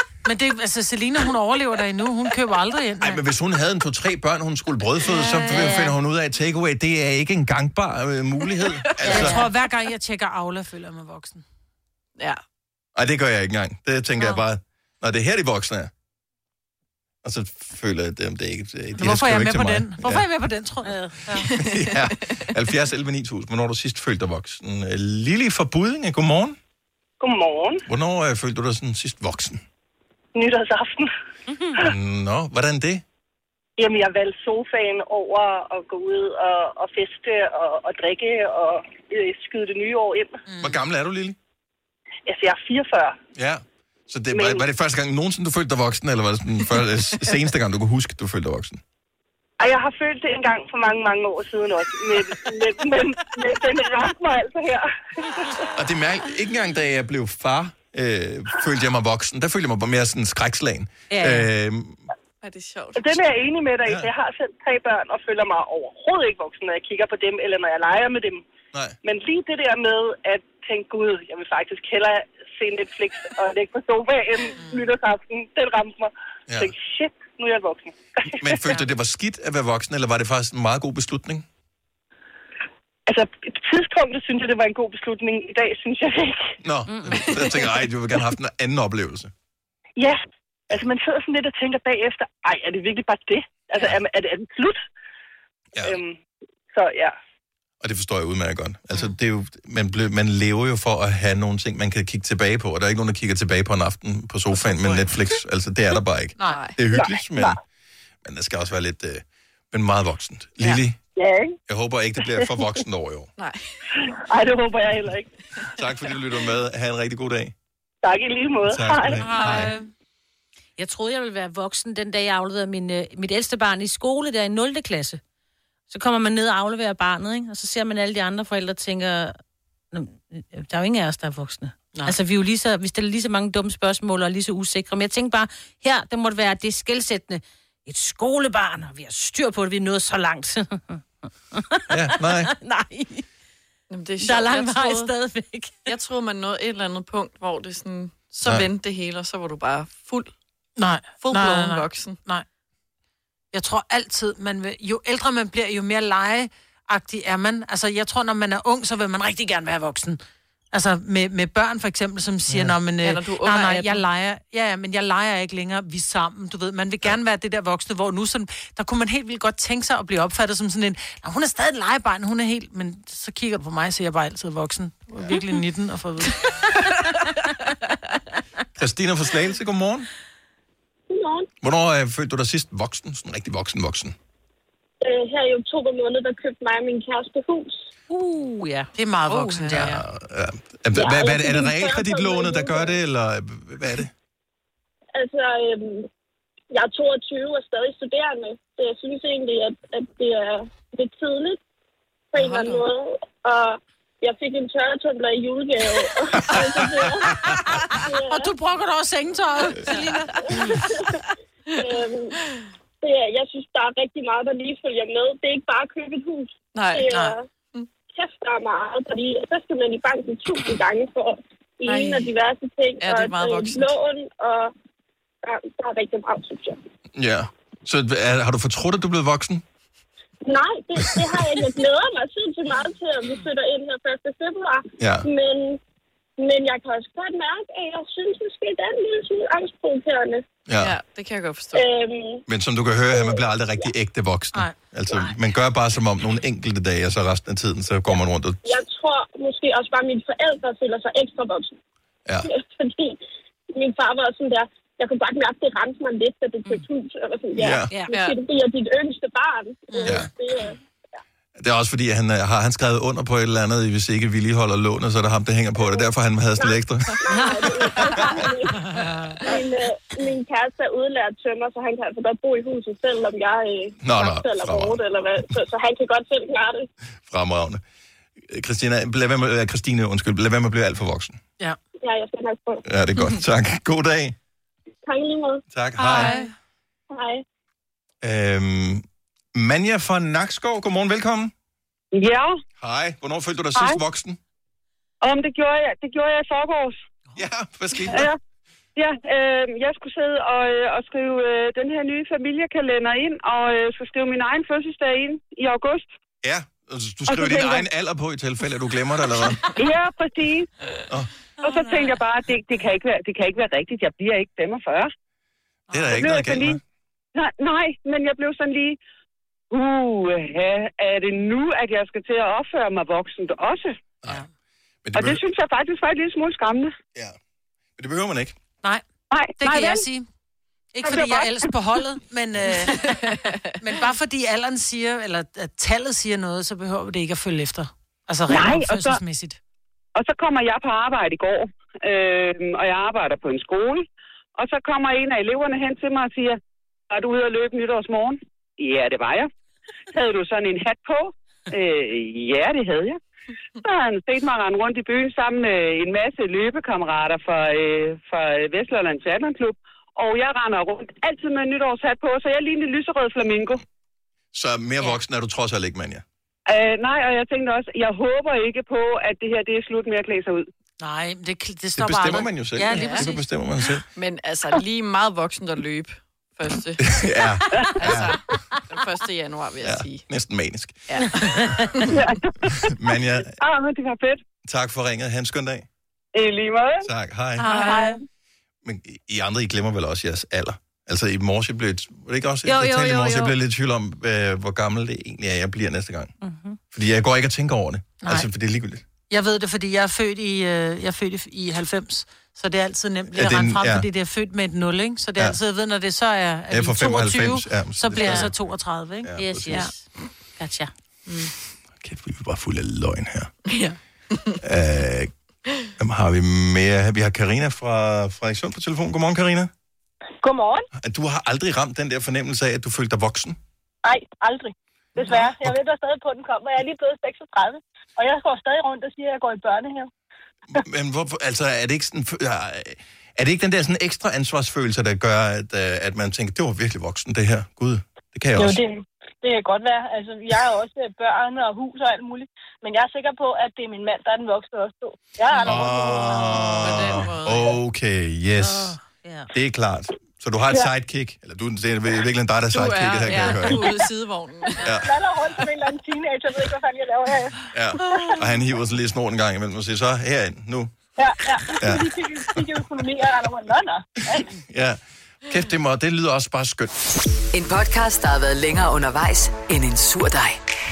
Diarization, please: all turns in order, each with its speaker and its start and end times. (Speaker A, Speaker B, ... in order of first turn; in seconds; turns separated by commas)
Speaker A: 0.2-3.2, Speaker B: 3.0-9.4, Speaker C: 5.1-6.0, Speaker D: 8.8-9.2, Speaker C: 9.1-9.5, Speaker A: 9.1-11.4, Speaker B: 12.9-15.9, Speaker B: 17.2-20.2, Speaker A: 18.9-21.5, Speaker C: 20.8-21.3, Speaker D: 21.5-22.1, Speaker B: 21.6-26.6, Speaker E: 27.2-27.8, Speaker B: 27.9-29.6, Speaker E: 30.3-31.1, Speaker C: 31.5-31.8, Speaker B: 31.8-33.0, Speaker E: 33.8-40.4, Speaker B: 40.6-41.4, Speaker E: 42.2-43.1, Speaker B: 43.3-48.8, Speaker E: 44.3-44.6, Speaker E: 49.6-55.7, Speaker B: 55.7-62.0, Speaker C: 61.1-61.5, Speaker D: 62.4-63.1, Speaker E: 62.9-68.4, Speaker E: 69.0-78.8, Speaker B: 78.3-81.5, Speaker E: 83.1-86.5, Speaker B: 86.6-89.3, Speaker C: 86.9-87.2, Speaker D: 87.2-87.8, Speaker E: 90.0-94.8, Speaker E: 95.8-96.2, Speaker E: 96.7-97.1, Speaker B: 97.8-107.6, Speaker A: 104.6-105.0, Speaker A: 106.4-106.6, Speaker D: 106.5-106.8, Speaker E: 106.9-107.5, Speaker B: 108.2-111.0, Speaker E: 111.2-111.5, Speaker B: 111.7-113.3, Speaker D: 113.4-113.6, Speaker E: 114.3-115.3, Speaker B: 115.7-117.5, Speaker E: 118.0-119.3, Speaker B: 118.7-119.7, Speaker C: 119.3-119.8, Speaker A: 119.3-119.8, Speaker C: 120.8-125.2, Speaker C: 125.9-129.4, Speaker C: 129.9-141.0, Speaker C: 141.5-143.2, Speaker B: 141.9-142.5, Speaker D: 143.9-145.1, Speaker C: 144.2-145.9, Speaker D: 145.8-150.3, Speaker B: 148.4-148.7, Speaker A: 150.8-152.4, Speaker D: 151.2-152.2, Speaker A: 153.5-160.2, Speaker A: 160.7-176.4, Speaker B: 162.5-162.8, Speaker D: 163.0-164.0, Speaker B: 178.8-180.1, Speaker F: 181.1-181.5, Speaker B: 181.6-184.1, Speaker F: 185.0-187.8, Speaker C: 188.1-189.9, Speaker A: 188.9-190.0, Speaker B: 189.7-194.1, Speaker F: 190.9-192.9, Speaker F: 195.1-196.1, Speaker F: 196.7-201.6, Speaker F: 202.3-207.3, Speaker D: 202.3-202.8, Speaker B: 206.4-207.1, Speaker D: 206.5-207.0, Speaker F: 207.9-208.5, Speaker A: 208.3-210.7, Speaker D: 209.9-210.8, Speaker D: 211.7-212.0, Speaker F: 211.8-212.3, Speaker F: 213.0-217.4, Speaker D: 216.7-217.2, Speaker A: 217.1-217.3, Speaker F: 218.1-224.7, Speaker D: 221.8-222.3, Speaker D: 223.0-223.9, Speaker F: 225.4-226.8, Speaker B: 227.1-229.6, Speaker F: 230.4-235.8, Speaker B: 231.1-231.4, Speaker B: 235.0-235.3, Speaker F: 236.4-240.4, Speaker B: 240.7-240.9, Speaker D: 240.8-241.9, Speaker F: 241.7-242.4, Speaker B: 242.5-248.7, Speaker F: 243.1-243.9, Speaker F: 248.6-251.7, Speaker F: 252.4-253.2, Speaker F: 253.7-260.8, Speaker B: 257.5-257.9, Speaker C: 257.9-258.1, Speaker D: 258.1-258.4, Speaker A: 259.9-260.2, Speaker B: 260.0-260.3, Speaker B: 261.6-267.2, Speaker F: 266.6-268.8, Speaker F: 269.4-276.9, Speaker B: 274.0-275.5, Speaker B: 277.3-277.8, Speaker B: 278.4-281.4, Speaker F: 282.0-282.8, Speaker B: 282.8-284.4, Speaker F: 285.1-285.6, Speaker B: 285.7-286.4, Speaker A: 286.0-286.5, Speaker D: 286.1-286.5, Speaker F: 287.1-287.4, Speaker B: 288.2-291.5, Speaker G: 292.1-292.5, Speaker B: 292.8-294.4, Speaker G: 295.2-297.0, Speaker B: 297.4-298.3, Speaker G: 298.1-298.3, Speaker G: 299.0-306.1, Speaker B: 306.4-309.6, Speaker G: 307.3-307.8, Speaker G: 309.8-310.7, Speaker G: 311.6-315.1, Speaker B: 315.9-316.8, Speaker A: 315.9-316.2, Speaker G: 316.1-316.7, Speaker G: 317.4-319.0, Speaker G: 319.7-323.9, Speaker B: 325.0-325.4, Speaker G: 325.2-326.9, Speaker B: 328.0-328.6, Speaker G: 329.3-330.0, Speaker A: 329.6-330.3, Speaker A: 330.9-333.1, Speaker G: 331.0-331.6, Speaker D: 332.7-333.6, Speaker A: 333.8-339.6, Speaker G: 338.5-339.2, Speaker G: 340.1-344.0, Speaker G: 344.6-346.6, Speaker G: 347.1-349.5, Speaker G: 350.1-353.2, Speaker G: 353.8-363.8, Speaker B: 364.5-366.2, Speaker G: 366.7-370.6, Speaker A: 371.0-373.4, Speaker B: 371.9-374.0, Speaker D: 372.9-373.3, Speaker D: 374.1-377.3, Speaker B: 377.0-378.4, Speaker D: 377.9-380.2, Speaker B: 379.8-381.0, Speaker D: 381.1-382.2, Speaker B: 382.8-383.6, Speaker G: 383.6-384.4, Speaker B: 384.6-385.9, Speaker G: 386.4-386.8, Speaker B: 387.0-387.7, Speaker C: 387.6-388.1, Speaker A: 387.7-388.1, Speaker B: 388.8-396.3, Speaker C: 392.6-393.5, Speaker C: 396.4-396.8, Speaker B: 396.9-399.0, Speaker A: 398.2-398.5, Speaker A: 399.3-409.9, Speaker B: 403.3-404.1, Speaker B: 406.7-409.9, Speaker C: 408.1-408.5, Speaker C: 409.3-410.9, Speaker B: 411.9-413.5, Speaker B: 414.6-415.3, Speaker B: 416.0-419.7, Speaker B: 420.9-423.6, Speaker H: 424.1-424.6, Speaker B: 425.1-425.8, Speaker H: 425.3-426.2, Speaker H: 426.7-427.8, Speaker H: 428.3-430.0, Speaker B: 430.7-438.8, Speaker H: 439.6-440.3, Speaker H: 441.2-441.6, Speaker H: 442.8-443.4, Speaker H: 443.9-445.1, Speaker C: 445.5-446.6, Speaker B: 445.6-449.0, Speaker D: 445.6-447.8, Speaker C: 448.6-449.5, Speaker B: 449.5-453.9, Speaker D: 452.7-454.9, Speaker B: 454.8-455.2, Speaker H: 455.5-456.4, Speaker B: 457.7-460.9, Speaker B: 461.8-462.1, Speaker E: 462.7-463.6, Speaker B: 464.3-466.9, Speaker I: 467.5-470.6